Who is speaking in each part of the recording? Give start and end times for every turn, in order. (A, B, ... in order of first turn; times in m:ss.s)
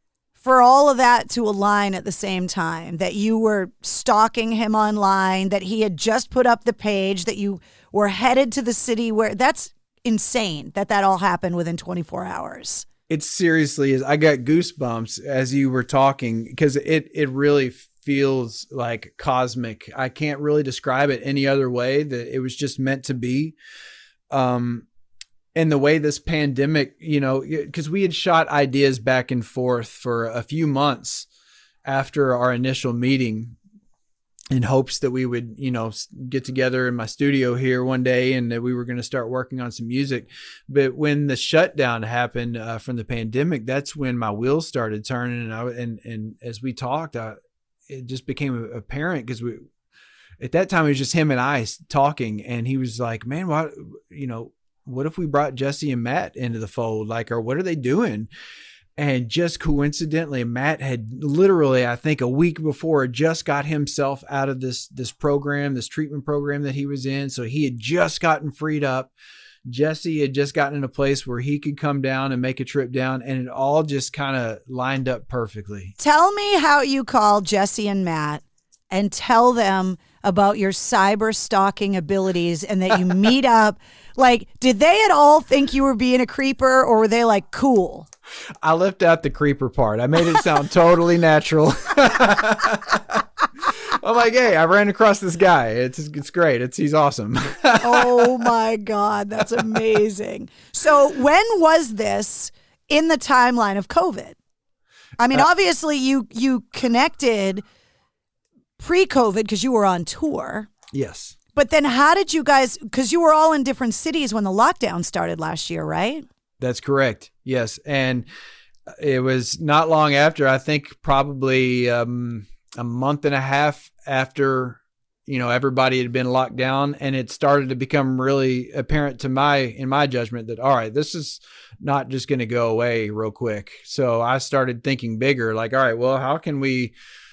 0:00.4-0:12.9 A
0:13.1-0:23.6 B
0:24.3-0:24.9 B
0:25.6-0:31.3 B
0:31.8-0:33.6 B
0:34.5-0:49.7 B
0:50.4-0:58.3 B
0:59.0-1:09.1 B
1:09.7-1:15.9 B
1:16.0-1:28.1 A
1:28.6-1:38.4 B
1:37.8-1:44.4 A
1:45.2-1:47.6 A
1:48.8-1:50.7 A
1:50.9-1:51.4 B
1:51.6-1:56.3 A
1:56.6-1:58.3 B
1:58.9-2:16.9 B